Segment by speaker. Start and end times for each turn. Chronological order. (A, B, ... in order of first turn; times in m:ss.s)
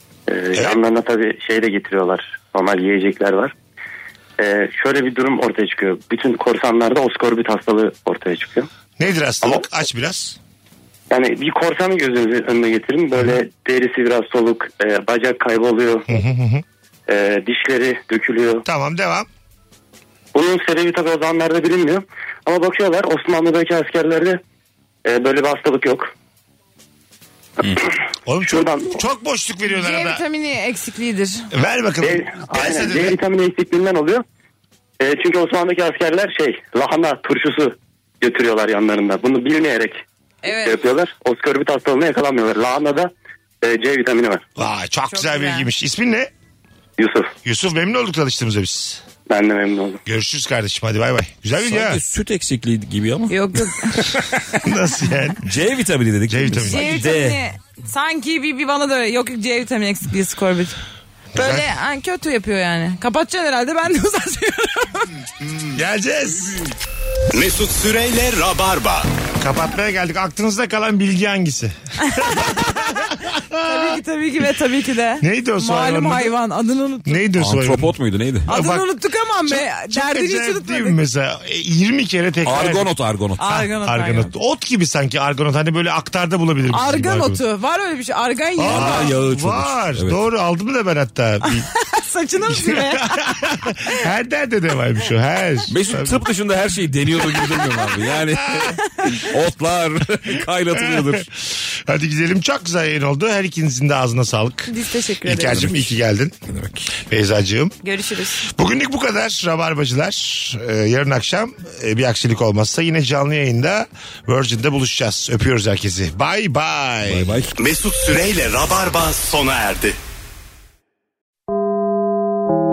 0:00.3-0:03.5 A
0:00.6-0:00.8 B
0:04.4-0:08.7 A
0:09.0-0:10.4 B
0:11.1-0:16.2 A
0:16.1-0:16.6 B
0:17.1-0:18.6 A
0:18.7-0:19.3 B
0:20.3-0:24.4 A
0:25.0-0:26.1 A
0:28.3-0:30.2 B
0:28.5-0:29.0 A
0:29.7-0:31.5 C
0:31.5-0:33.2 B
0:32.0-0:34.2 A
0:35.0-0:43.1 A
0:40.4-0:40.8 C
0:43.6-0:44.5 A
0:44.6-0:46.3 B
0:45.1-0:45.7 C
0:47.0-0:47.3 A
0:47.4-0:49.0 B
0:49.3-0:50.0 A
0:50.1-0:52.0 B
0:51.6-0:53.6 D
0:53.3-0:54.0 C
0:54.0-0:55.4 B
0:55.4-0:57.4 D
0:56.3-0:57.0 B
0:56.7-1:00.8 C
1:01.3-1:01.7 B
1:01.4-1:05.1 C
1:05.8-1:06.6 B
1:07.3-1:09.1 E
1:09.4-1:14.0 B
1:12.0-1:13.1 C
1:13.6-1:17.2 C
1:15.2-1:16.4 B
1:17.0-1:17.9 B
1:17.4-1:18.5 D
1:18.5-1:18.9 B
1:18.5-1:21.0 C
1:19.4-1:22.9 B
1:22.4-1:23.6 D
1:23.4-1:24.3 C
1:23.5-1:27.4 B
1:26.7-1:29.1 C
1:28.6-1:31.7 B
1:28.6-1:30.2 D
1:31.5-1:33.7 C
1:32.5-1:36.2 B
1:35.7-1:41.3 D
1:38.9-1:39.2 C
1:40.7-1:44.7 B
1:44.7-1:45.6 C
1:45.2-1:46.4 B
1:45.5-1:45.8 D
1:46.5-1:46.9 D
1:47.0-1:47.8 B
1:47.8-1:48.5 C
1:48.5-1:57.4 B
1:57.1-1:57.5 D
1:57.6-2:00.0 E